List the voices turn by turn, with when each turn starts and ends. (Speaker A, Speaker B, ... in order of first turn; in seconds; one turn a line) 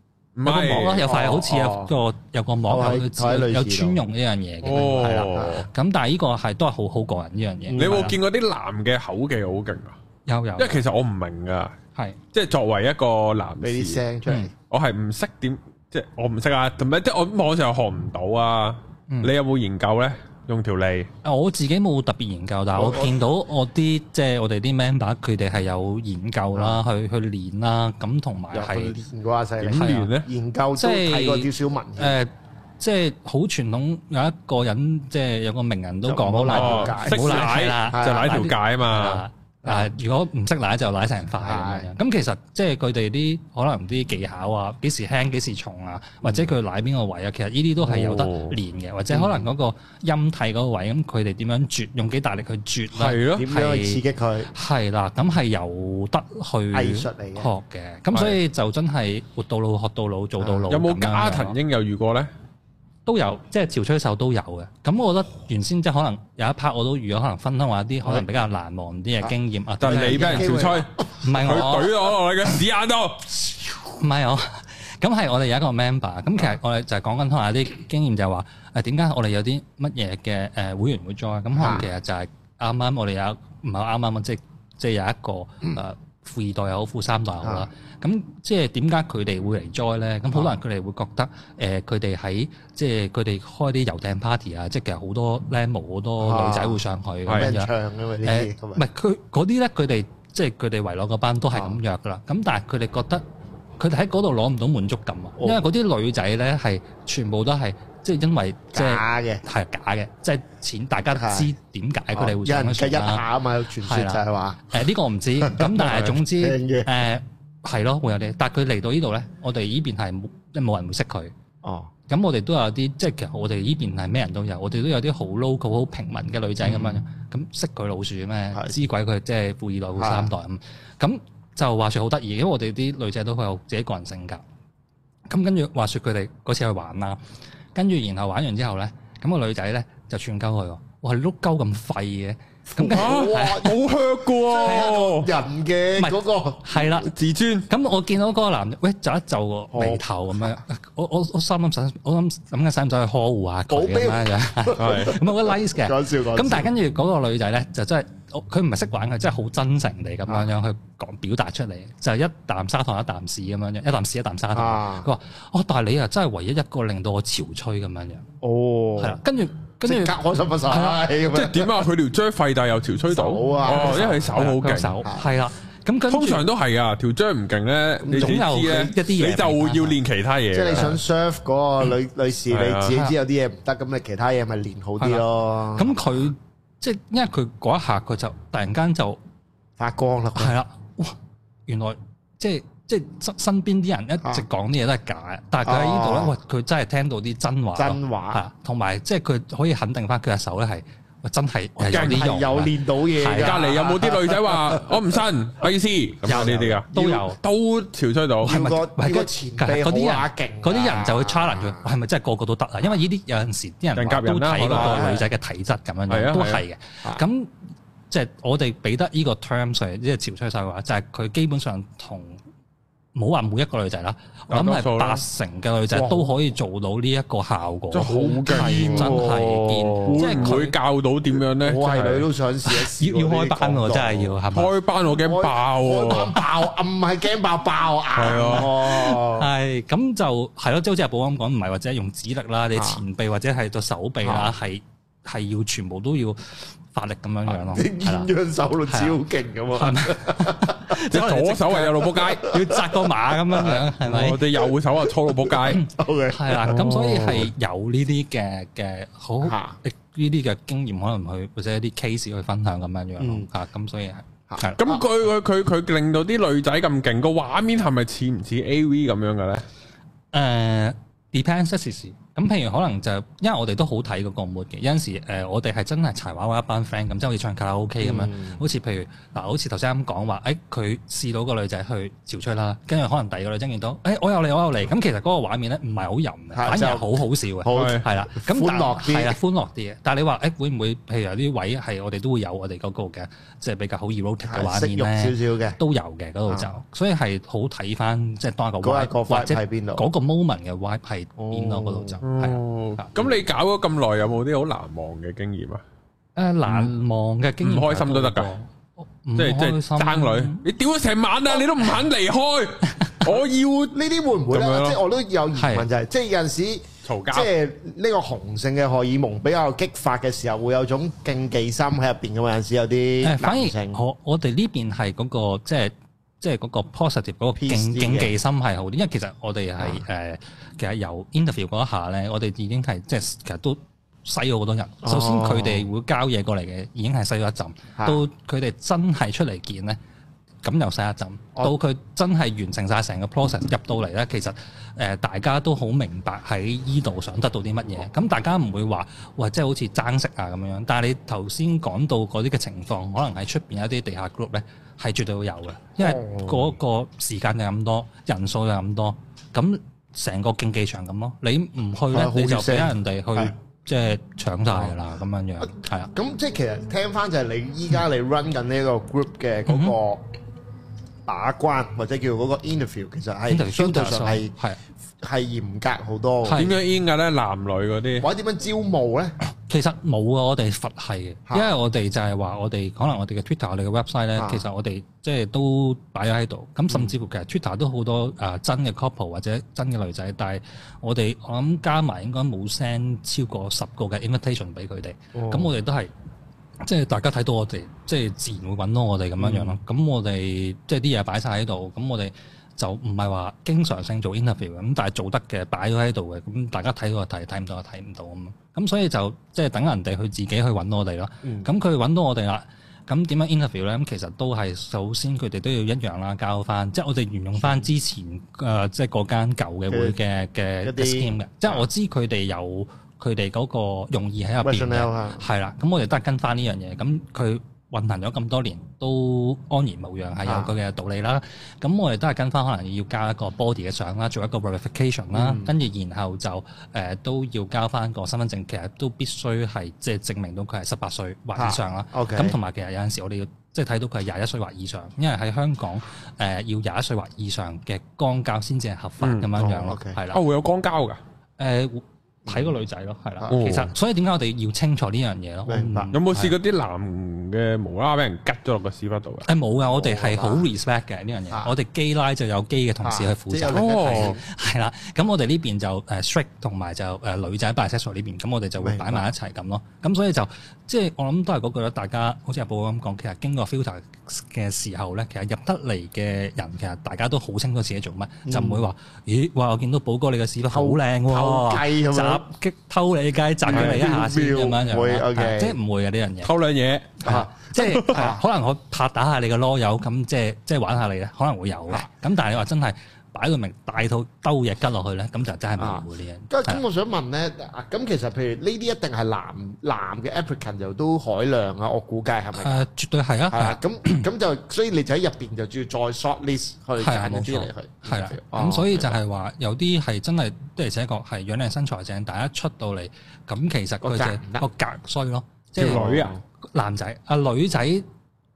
Speaker A: 0.4-1.0
Speaker B: 0.5-8.2
Speaker C: 0.6-1.9
Speaker C: 2.7-4.0
Speaker A: 4.6-5.7
Speaker C: 4.8-5.7
Speaker C: 7.7-8.1
Speaker A: 7.8-10.0
Speaker B: 10.3-10.8
Speaker A: 10.6-11.8
Speaker A: 12.3-14.0
Speaker C: 13.6-14.5
Speaker A: 14.7-21.1
Speaker B: 21.2-29.0
Speaker C: 22.7-23.2
Speaker C: 26.5-26.8
Speaker C: 28.5-32.2
Speaker A: 29.6-30.3
Speaker B: 29.7-30.1
Speaker B: 30.8-61.6
Speaker C: 36.0-38.4
Speaker A: 36.5-39.2
Speaker C: 41.4-41.9
Speaker A: 47.8-48.6
Speaker C: 49.1-49.5
Speaker A: 53.0-53.5
Speaker C: 53.3-54.5
Speaker C: 56.7-57.5
Speaker C: 60.4-60.6
Speaker A: 60.7-62.3
Speaker B: 63.1-71.9
Speaker A: 69.8-73.4
Speaker C: 69.8-70.9
Speaker B: 73.8-97.7
Speaker C: 81.6-81.9
Speaker C: 96.2-98.8
Speaker B: 98.2-103.2
Speaker C: 101.5-101.8
Speaker B: 103.8-113.2
Speaker C: 105.4-105.6
Speaker C: 108.7-109.4
Speaker C: 111.1-111.5
Speaker C: 112.1-114.8
Speaker B: 113.8-121.3
Speaker C: 115.4-116.9
Speaker C: 121.6-121.9
Speaker B: 122.1-134.4
Speaker C: 126.6-127.0
Speaker C: 130.0-130.3
Speaker B: 135.3-137.2
Speaker B: 137.8-143.7
Speaker C: 142.7-143.8
Speaker A: 142.9-145.3
Speaker C: 144.5-147.0
Speaker B: 144.6-145.0
Speaker B: 146.0-147.1
Speaker A: 147.1-147.7
Speaker B: 147.7-168.2
Speaker C: 149.7-150.6
Speaker C: 153.7-156.7
Speaker A: 154.8-155.2
Speaker C: 164.5-165.1
Speaker C: 168.4-169.2
Speaker B: 169.0-170.2
Speaker C: 169.8-171.7
Speaker B: 170.7-171.1
Speaker A: 171.3-175.0
Speaker C: 173.1-174.5
Speaker B: 173.7-176.5
Speaker C: 175.0-175.3
Speaker A: 176.1-181.0
Speaker C: 178.0-178.5
Speaker B: 178.1-180.0
Speaker C: 180.5-186.1
Speaker A: 182.5-183.0
Speaker B: 185.0-189.2
Speaker C: 189.8-190.6
Speaker B: 190.4-191.2
Speaker B: 191.7-203.6
Speaker C: 195.6-196.4
Speaker C: 197.8-198.4
Speaker C: 201.8-205.0
Speaker A: 201.9-202.3
Speaker A: 203.3-208.6
Speaker B: 206.3-207.4
Speaker C: 206.3-206.7
Speaker C: 208.4-211.9
Speaker B: 208.4-217.5
Speaker A: 214.0-215.2
Speaker C: 214.7-215.3
Speaker A: 216.1-216.6
Speaker B: 218.1-222.4
Speaker B: 223.2-230.8
Speaker A: 224.5-225.2
Speaker C: 225.9-226.3
Speaker A: 227.9-229.2
Speaker C: 228.0-230.5
Speaker A: 230.0-232.3
Speaker C: 231.6-234.4
Speaker B: 232.7-234.7
Speaker A: 234.5-236.4
Speaker C: 235.1-239.5
Speaker A: 238.2-239.1
Speaker B: 239.0-248.3
Speaker C: 242.8-243.0
Speaker C: 244.2-244.5
Speaker C: 247.5-251.0
Speaker B: 248.9-249.2
Speaker B: 249.7-254.4
Speaker A: 251.1-252.5
Speaker C: 252.4-257.4
Speaker A: 254.1-255.8
Speaker B: 255.7-264.8
Speaker A: 256.8-257.1
Speaker C: 259.4-259.8
Speaker C: 263.2-263.5
Speaker C: 264.5-265.0
Speaker A: 264.8-269.6
Speaker B: 270.3-303.1
Speaker C: 278.0-278.6
Speaker C: 286.5-289.4
Speaker A: 287.7-288.0
Speaker C: 294.5-295.8
Speaker C: 298.8-300.1
Speaker C: 301.4-302.2
Speaker A: 302.2-305.8
Speaker B: 306.4-310.6
Speaker A: 307.6-308.5
Speaker A: 309.4-314.0
Speaker C: 313.9-324.0
Speaker A: 314.5-315.0
Speaker B: 315.6-315.9
Speaker A: 317.1-317.5
Speaker B: 323.2-340.0
Speaker C: 327.6-328.3
Speaker C: 335.0-335.9
Speaker C: 338.0-338.2
Speaker B: 340.6-366.1
Speaker C: 356.0-356.7
Speaker C: 362.1-363.5
Speaker C: 364.7-364.9
Speaker C: 366.1-370.2
Speaker B: 369.7-370.0
Speaker C: 371.3-374.6
Speaker B: 373.5-374.8
Speaker C: 375.2-376.6
Speaker B: 376.4-376.8
Speaker A: 376.6-378.3
Speaker C: 378.2-379.4
Speaker B: 379.5-396.1
Speaker C: 384.4-384.6
Speaker C: 395.3-395.7
Speaker B: 396.8-450.4
Speaker C: 399.4-399.8
Speaker C: 411.4-411.7
Speaker C: 417.6-417.9
Speaker C: 419.9-420.2
Speaker C: 420.8-421.9
Speaker C: 424.6-425.4
Speaker C: 430.4-430.7
Speaker C: 435.3-435.7
Speaker C: 441.6-442.6
Speaker A: 449.2-449.5
Speaker C: 449.6-450.2
Speaker A: 450.3-451.2
Speaker B: 451.6-456.6
Speaker C: 452.5-452.7
Speaker A: 453.5-453.9
Speaker C: 455.7-456.1
Speaker A: 456.1-459.5
Speaker B: 459.5-486.5
Speaker C: 459.9-460.7
Speaker C: 463.0-464.4
Speaker A: 463.7-464.4
Speaker C: 468.8-469.3
Speaker C: 478.5-478.8
Speaker C: 480.7-482.4
Speaker C: 483.7-485.8
Speaker A: 483.7-484.0
Speaker A: 486.4-487.2
Speaker B: 487.2-496.8
Speaker C: 487.2-488.4
Speaker C: 495.8-502.9
Speaker B: 502.6-504.2
Speaker C: 503.5-509.2
Speaker B: 507.0-516.1
Speaker C: 514.0-514.6
Speaker A: 515.8-516.3
Speaker C: 515.8-516.4
Speaker B: 516.7-518.1